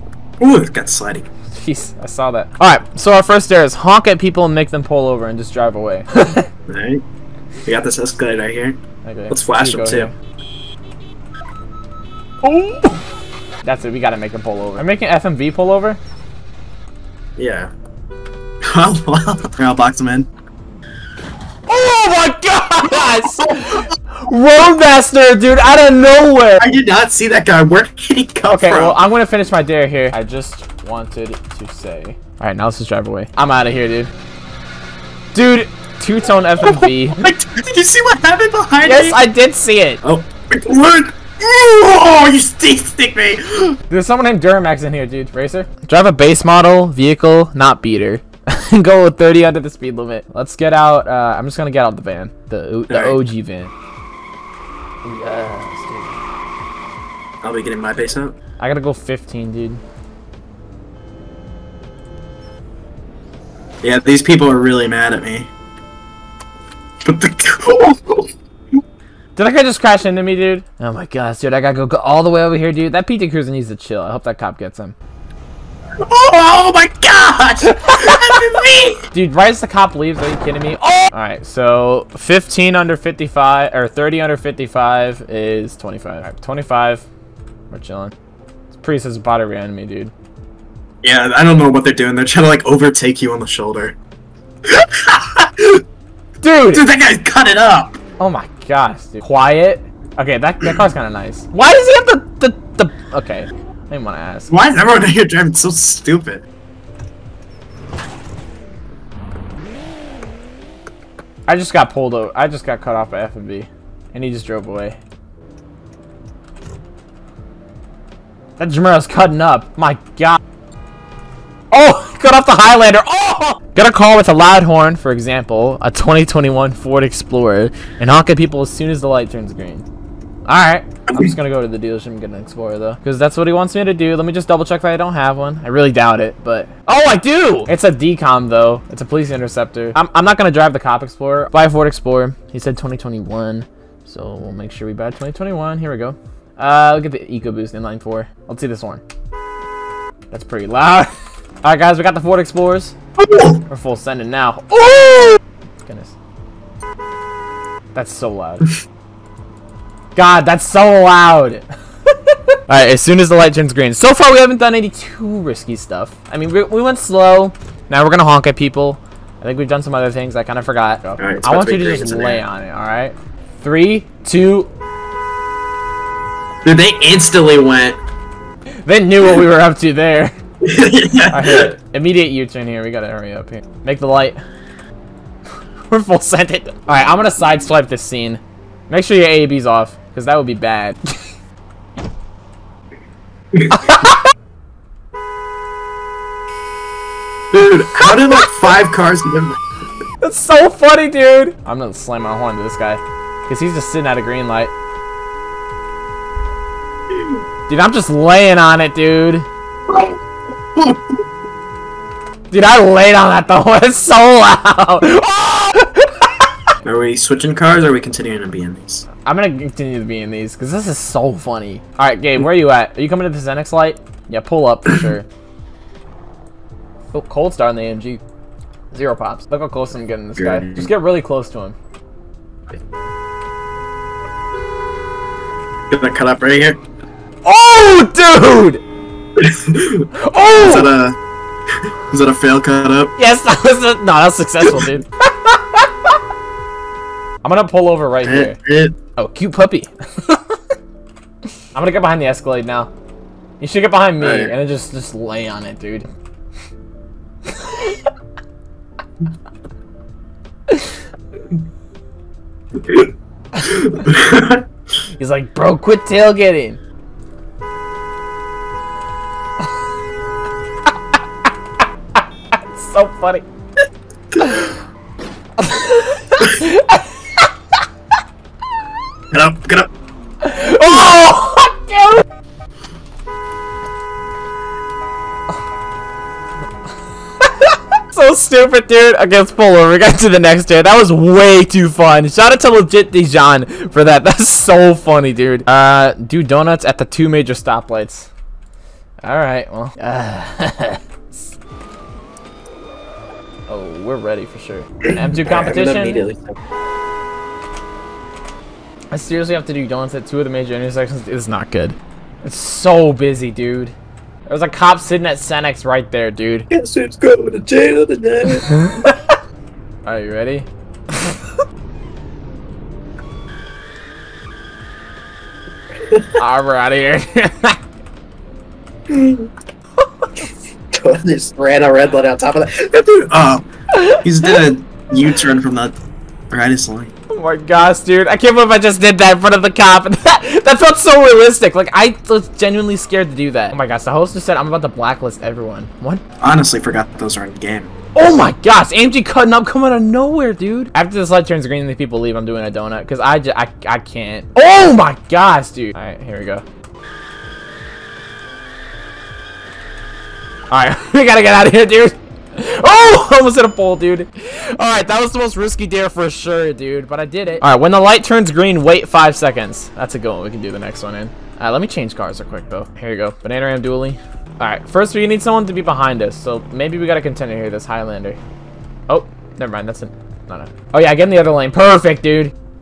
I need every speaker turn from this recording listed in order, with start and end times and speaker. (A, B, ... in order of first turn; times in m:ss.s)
0:00.4-0:01.3 A
0:01.5-0:06.5 B
0:06.7-0:07.0 A
0:07.6-0:10.1 A
0:09.0-0:10.1 B
0:12.4-0:13.0 B
0:13.6-0:16.0 B
0:17.4-0:17.7 A
0:18.7-0:20.3 A
0:21.7-0:26.6 B
0:23.4-0:23.8 A
0:26.6-0:29.0 A
0:28.5-0:34.1 B
0:35.3-0:37.3 B
0:36.6-0:39.2 A
0:38.8-0:40.0 B
0:40.0-0:43.8 A
0:43.9-0:53.7 B
0:52.9-0:53.2 A
0:55.0-0:56.2 B
0:57.4-0:58.4 A
0:58.6-0:59.8 B
1:03.8-1:05.5 A
1:07.0-1:08.3 A
1:09.4-1:15.0 B
1:16.0-1:19.1 A
1:17.6-1:18.4 B
1:19.1-1:27.0 B
1:27.7-1:28.1 B
1:28.7-1:30.1 B
1:31.0-1:34.0 A
1:34.6-1:35.8 A
1:36.4-1:36.9 B
1:36.7-1:38.0 A
1:38.2-1:44.5 B
1:44.5-1:46.4 A
1:51.5-1:55.0 B
1:58.6-2:00.4 B
2:01.7-2:09.9 B
2:10.5-2:29.0 B
2:11.1-2:11.4 A
2:30.3-2:31.1 B
2:31.6-2:33.0 B
2:33.2-2:33.6 A
2:33.7-2:36.2 B
2:37.9-2:38.7 B
2:40.2-2:54.7 B
2:51.2-2:52.4 A
2:56.6-2:58.0 A
2:58.8-3:00.3 B
3:00.6-3:01.8 A
3:01.3-3:04.4 B
3:05.9-3:11.2 B
3:13.5-3:13.8 A
3:13.7-3:14.3 B
3:17.5-3:19.6 A
3:18.0-3:18.5 B
3:20.2-3:24.7 B
3:27.7-3:29.5 B
3:29.9-3:30.2 A
3:30.8-3:31.2 A
3:32.5-3:36.6 B
3:36.8-3:39.1 A
3:39.2-3:45.3 B
3:47.1-3:48.2 B
3:48.9-3:51.8 B
3:50.4-3:50.9 A
3:55.9-3:56.8 A
3:57.4-3:58.8 B
3:59.4-4:01.2 A
4:00.1-4:00.9 B
4:02.1-4:03.1 A
4:03.2-4:06.1 B
4:07.4-4:08.6 B
4:08.2-4:09.0 A
4:09.2-4:10.6 B
4:11.7-4:12.9 B
4:13.6-4:16.1 B
4:14.2-4:14.5 A
4:17.5-4:18.1 B
4:22.8-4:23.1 A
4:23.6-4:24.6 A
4:25.2-4:26.8 B
4:32.2-4:33.4 B
4:34.4-4:34.8 B
4:35.6-4:37.5 B
4:39.3-4:39.9 A
4:40.4-4:42.2 B
4:47.4-4:58.3 B
4:59.2-5:01.6 B
5:03.7-5:06.3 B
5:05.1-5:06.6 A
5:09.1-5:14.0 B
5:14.5-5:16.7 B
5:16.7-5:18.7 A
5:18.6-5:19.4 B
5:20.0-5:21.5 B
5:26.3-5:27.8 B
5:29.1-5:29.5 A
5:30.9-5:36.0 A
5:33.9-5:34.6 B
5:36.5-5:37.1 A
5:37.3-5:46.2 B
5:46.4-5:47.9 A
5:48.2-5:56.6 B
6:00.7-6:18.4 B
6:19.1-6:22.5 B